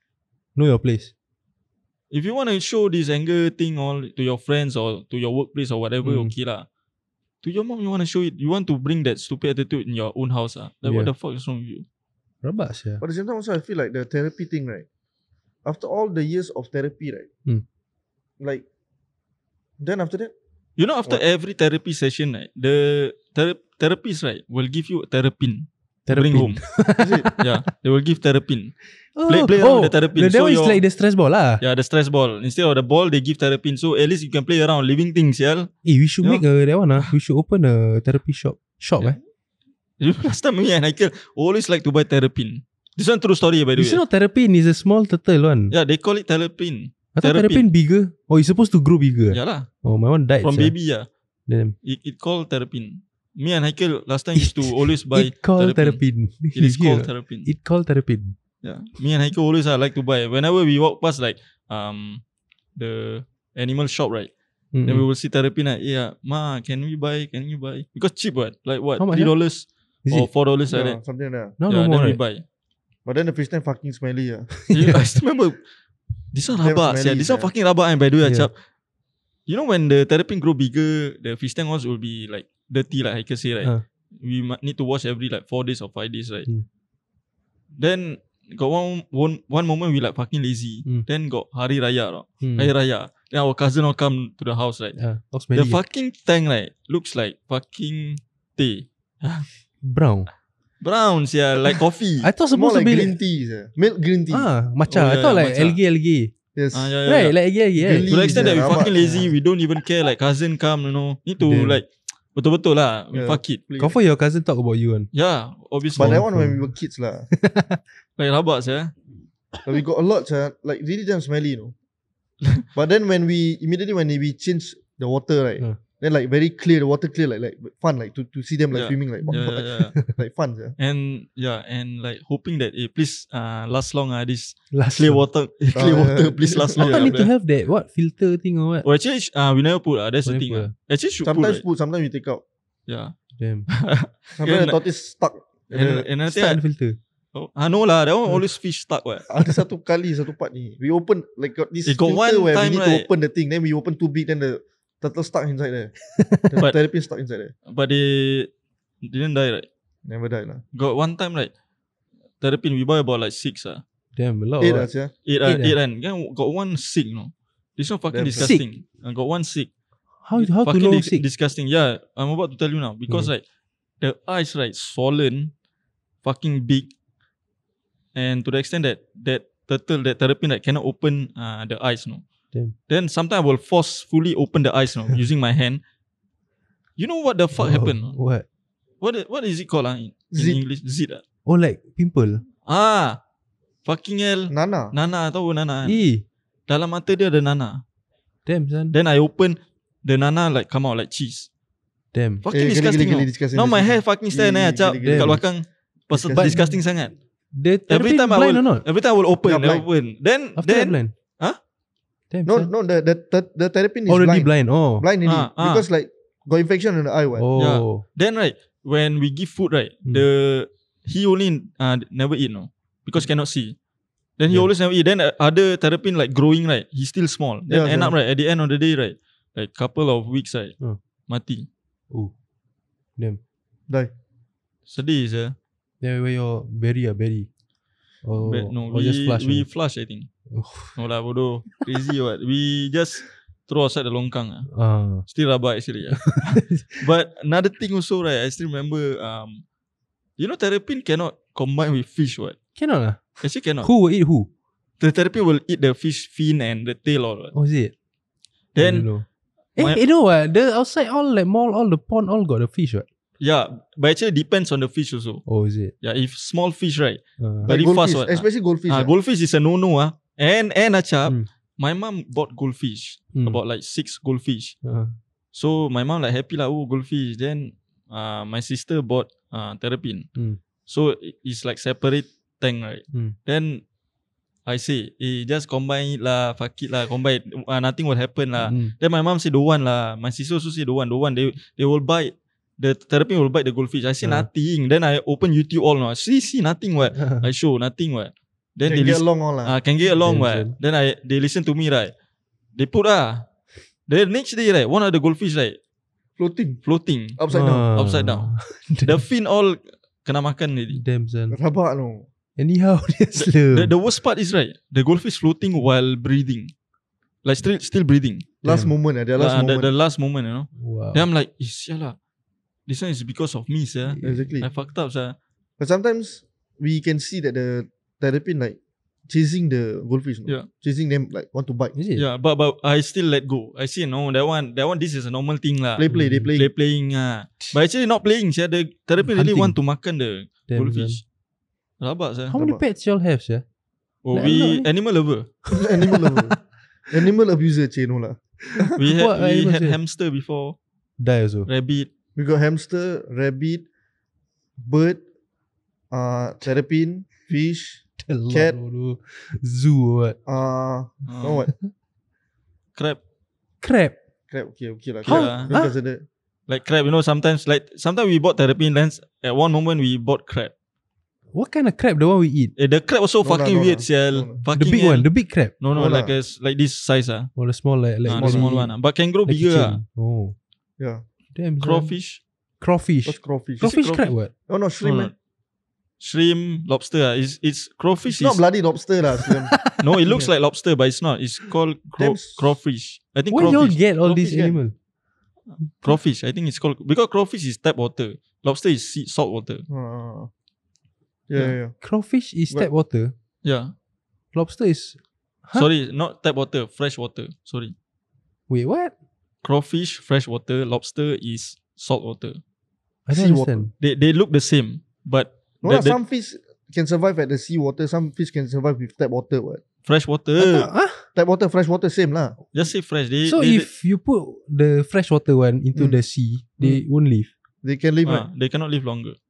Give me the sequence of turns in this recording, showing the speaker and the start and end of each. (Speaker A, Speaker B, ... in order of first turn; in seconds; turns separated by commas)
Speaker A: 0.6-1.1, Speaker B: 2.1-6.7, Speaker A: 6.0-6.3, Speaker B: 7.4-11.8, Speaker A: 10.8-11.1, Speaker A: 12.4-13.0, Speaker C: 13.0-14.9, Speaker C: 15.7-17.3, Speaker C: 18.4-18.6, Speaker C: 19.8-20.3, Speaker B: 20.8-26.7, Speaker A: 26.1-27.5, Speaker C: 27.0-27.3, Speaker B: 27.4-30.8, Speaker A: 29.2-31.6, Speaker B: 31.6-35.7, Speaker A: 35.9-39.2, Speaker B: 40.0-44.0, Speaker A: 43.8-45.7, Speaker B: 45.7-47.6, Speaker A: 47.1-50.8, Speaker B: 49.3-49.7, Speaker B: 50.4-51.1, Speaker A: 51.5-51.8, Speaker B: 51.8-56.0, Speaker A: 54.4-58.4, Speaker B: 56.5-57.5, Speaker B: 58.6-62.2, Speaker B: 62.8-64.3, Speaker A: 64.7-65.1, Speaker B: 64.9-71.0, Speaker A: 69.0-69.3, Speaker C: 70.7-71.6, Speaker A: 71.6-72.2, Speaker B: 71.7-72.4, Speaker C: 73.1-74.5, Speaker A: 74.7-75.0, Speaker B: 74.7-75.6, Speaker B: 76.3-78.5, Speaker C: 76.6-77.5, Speaker A: 78.2-78.5, Speaker B: 79.5-86.5, Speaker B: 87.8-95.0, Speaker A: 92.4-92.7, Speaker A: 95.0-95.8, Speaker B: 95.5-99.5, Speaker A: 99.8-100.3, Speaker B: 100.8-102.3, Speaker A: 102.2-103.2, Speaker C: 102.5-104.5, Speaker A: 104.3-106.3, Speaker B: 104.9-105.8, Speaker C: 106.5-107.0, Speaker B: 106.7-107.4, Speaker A: 107.0-108.7, Speaker C: 107.8-109.3, Speaker B: 108.1-113.6, Speaker A: 111.5-111.8, Speaker C: 113.1-114.0, Speaker A: 113.8-115.1, Speaker B: 115.1-116.2, Speaker A: 116.0-116.8, Speaker C: 116.0-117.3, Speaker A: 117.3-117.8, Speaker B: 118.2-118.9, Speaker C: 119.7-121.8, Speaker C: 122.8-130.8, Speaker B: 128.7-130.0, Speaker B: 130.8-137.3, Speaker A: 134.7-135.2, Speaker C: 135.8-137.2, Speaker A: 136.8-138.9, Speaker B: 138.8-141.6, Speaker A: 140.2-140.7, Speaker C: 141.2-142.4, Speaker B: 142.9-143.1, Speaker A: 143.4-143.7, Speaker B: 143.7-144.8, Speaker C: 144.4-146.1, Speaker B: 145.7-146.6, Speaker A: 146.3-147.0, Speaker B: 147.3-149.3, Speaker C: 149.3-157.5, Speaker B: 151.9-153.1, Speaker A: 156.2-156.5, Speaker B: 157.7-158.5, Speaker B: 159.0-159.7, Speaker C: 160.1-160.6, Speaker B: 160.7-161.5, Speaker B: 162.4-163.8, Speaker A: 164.2-164.9, Speaker C: 164.6-165.1, Speaker B: 165.2-169.7, Speaker A: 165.4-165.8, Speaker C: 168.1-168.5, Speaker A: 168.4-168.7, Speaker A: 170.2-171.2, Speaker B: 170.3-173.4, Speaker B: 174.0-175.5, Speaker B: 176.2-176.9, Speaker B: 178.2-182.2, Speaker B: 182.9-185.8, Speaker B: 187.0-188.2, Speaker A: 187.6-188.4, Speaker B: 189.0-191.2, Speaker C: 190.3-190.6, Speaker A: 191.5-192.4, Speaker B: 192.7-193.2, Speaker B: 193.8-196.0, Speaker C: 194.5-194.9, Speaker A: 195.8-196.2, Speaker B: 196.7-197.8, Speaker A: 198.5-199.0, Speaker B: 198.9-201.5, Speaker A: 202.1-202.4, Speaker B: 202.4-207.1, Speaker C: 202.5-205.4, Speaker A: 205.0-205.4, Speaker C: 206.1-206.7, Speaker A: 206.4-206.7, Speaker A: 207.5-208.8, Speaker B: 207.9-211.6, Speaker C: 209.4-209.9, Speaker A: 210.6-211.1, Speaker A: 212.3-212.7, Speaker C: 212.4-217.5, Speaker A: 214.1-215.1, Speaker B: 215.2-215.9, Speaker A: 217.3-218.1, Speaker B: 217.6-223.8, Speaker B: 224.4-230.8, Speaker C: 227.7-228.2, Speaker B: 231.3-231.7, Speaker B: 234.9-235.6, Speaker A: 236.0-237.5, Speaker A: 238.2-239.7, Speaker B: 238.4-240.3, Speaker A: 240.5-240.9, Speaker B: 240.9-244.7, Speaker A: 244.7-245.2, Speaker B: 245.2-249.6, Speaker A: 246.3-247.0, Speaker B: 250.4-252.6, Speaker A: 252.8-254.5, Speaker B: 253.4-253.9, Speaker B: 255.0-257.5, Speaker A: 257.5-257.9, Speaker B: 258.8-259.1, Speaker A: 258.8-263.1, Speaker B: 263.4-265.5, Speaker A: 265.5-265.9, Speaker B: 266.0-274.8, Speaker A: 267.4-267.7, Speaker C: 267.6-269.1, Speaker A: 273.3-273.6, Speaker A: 274.8-275.2, Speaker B: 275.5-280.3, Speaker B: 280.9-283.8, Speaker B: 284.7-302.1, Speaker A: 288.6-288.9, Speaker A: 297.2-297.5, Speaker C: 298.9-299.8, Speaker A: 300.2-300.7, Speaker B: 302.8-303.4, Speaker B: 304.1-305.8, Speaker C: 306.4-306.8, Speaker B: 306.9-307.4, Speaker C: 307.4-307.9, Speaker A: 307.5-309.2, Speaker B: 307.9-311.0, Speaker A: 310.9-311.6, Speaker C: 311.5-312.3, Speaker A: 312.6-313.9, Speaker B: 313.7-316.7, Speaker B: 317.4-318.5, Speaker C: 318.6-319.9, Speaker A: 318.6-318.9, Speaker B: 319.4-322.2, Speaker A: 320.8-321.3, Speaker B: 322.9-325.4, Speaker A: 324.1-324.5, Speaker C: 324.2-324.7, Speaker C: 325.8-328.8, Speaker C: 329.3-331.9, Speaker A: 331.9-332.3, Speaker B: 332.1-341.2, Speaker C: 336.0-336.7, Speaker A: 336.1-336.5, Speaker A: 339.2-339.8, Speaker A: 340.7-341.2, Speaker B: 342.0-342.6, Speaker A: 342.5-343.6, Speaker C: 342.5-342.8, Speaker B: 344.2-345.5, Speaker A: 344.3-344.9, Speaker C: 345.7-346.6, Speaker A: 345.8-346.5, Speaker C: 347.1-348.9, Speaker A: 348.7-350.0, Speaker B: 349.0-350.8, Speaker A: 351.2-351.7, Speaker B: 351.7-352.1, Speaker C: 352.4-353.9, Speaker C: 354.8-355.2, Speaker C: 356.1-358.8, Speaker A: 358.2-360.4, Speaker C: 360.5-361.7, Speaker B: 361.3-361.6, Speaker A: 363.8-364.1, Speaker C: 364.5-366.2, Speaker B: 365.2-365.7, Speaker A: 365.3-366.0, Speaker B: 366.7-370.7, Speaker A: 371.5-372.7, Speaker B: 372.8-377.5, Speaker C: 373.4-374.6, Speaker A: 374.7-375.7, Speaker C: 375.9-376.3, Speaker A: 377.6-378.9, Speaker B: 378.2-380.0, Speaker C: 378.4-378.7, Speaker A: 379.5-380.6, Speaker A: 381.6-382.1, Speaker B: 381.8-382.4, Speaker A: 382.8-384.5, Speaker C: 383.2-383.9, Speaker B: 383.8-384.3, Speaker C: 384.7-385.3, Speaker B: 385.0-385.3, Speaker B: 386.2-388.6, Speaker C: 388.3-390.5, Speaker B: 390.0-394.7, Speaker C: 392.2-392.7, Speaker A: 393.5-394.9, Speaker C: 394.3-394.7, Speaker B: 396.0-399.9, Speaker C: 399.9-400.5, Speaker C: 401.5-402.0, Speaker A: 402.0-403.3, Speaker B: 403.6-403.9, Speaker A: 404.5-405.9, Speaker B: 405.7-407.9, Speaker A: 408.7-409.1, Speaker B: 409.6-412.6, Speaker A: 413.3-413.9, Speaker C: 413.3-413.9, Speaker B: 414.0-416.2, Speaker C: 415.8-419.8, Speaker B: 420.1-420.9, Speaker C: 420.6-422.6, Speaker A: 420.8-421.3, Speaker B: 422.7-423.9, Speaker A: 423.5-427.5, Speaker C: 427.8-428.5, Speaker B: 428.2-429.4